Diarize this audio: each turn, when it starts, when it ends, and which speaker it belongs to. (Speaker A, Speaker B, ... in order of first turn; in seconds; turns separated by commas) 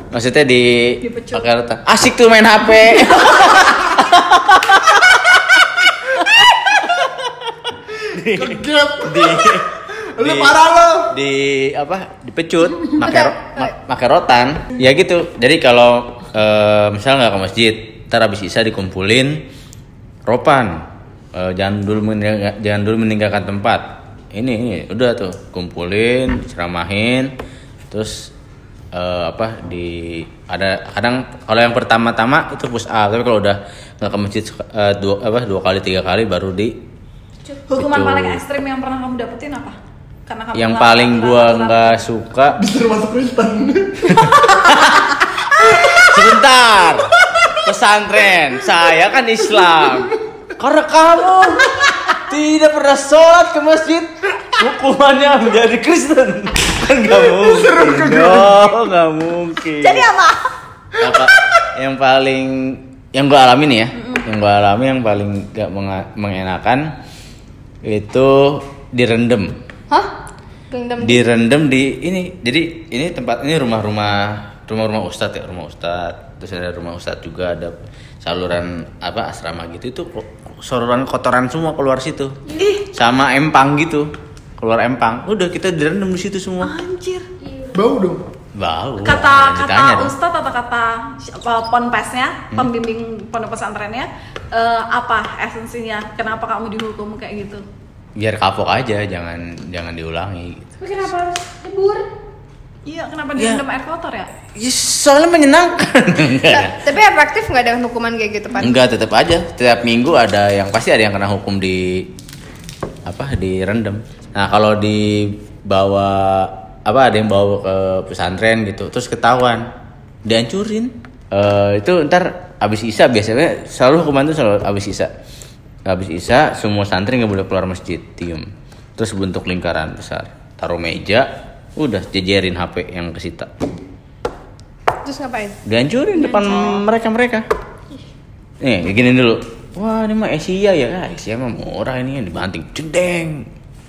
Speaker A: 0.1-9.7, Speaker B: 1.0-1.4, Speaker C: 8.2-11.1, Speaker A: 10.2-10.6, Speaker A: 11.1-19.4, Speaker A: 20.3-20.8, Speaker A: 21.3-27.3, Speaker A: 27.9-28.3, Speaker A: 28.9-36.8, Speaker B: 37.7-39.8, Speaker A: 37.7-38.4, Speaker B: 40.3-42.0, Speaker A: 40.5-42.6, Speaker C: 42.6-44.5, Speaker A: 44.3-45.1, Speaker C: 45.6-46.1, Speaker A: 46.0-60.1, Speaker C: 47.2-47.6, Speaker C: 49.6-50.1, Speaker C: 57.0-58.7, Speaker B: 59.8-60.4, Speaker A: 61.0-66.9, Speaker A: 67.8-69.5, Speaker D: 70.7-71.3, Speaker A: 71.0-82.4, Speaker E: 82.5-82.8, Speaker B: 82.6-82.9, Speaker A: 82.9-86.8, Speaker B: 86.6-87.2, Speaker E: 87.4-87.7, Speaker C: 87.7-88.2, Speaker A: 88.5-90.1, Speaker B: 89.0-97.6, Speaker A: 98.2-101.0, Speaker E: 100.8-102.1, Speaker B: 102.8-104.3, Speaker A: 103.4-103.6, Speaker A: 104.4-106.8, Speaker D: 106.5-108.8, Speaker A: 108.6-112.1, Speaker A: 113.0-119.7, Speaker A: 120.2-125.1, Speaker A: 125.8-133.5, Speaker D: 135.1-135.5, Speaker A: 135.7-137.4, Speaker B: 136.4-136.7, Speaker A: 138.6-143.5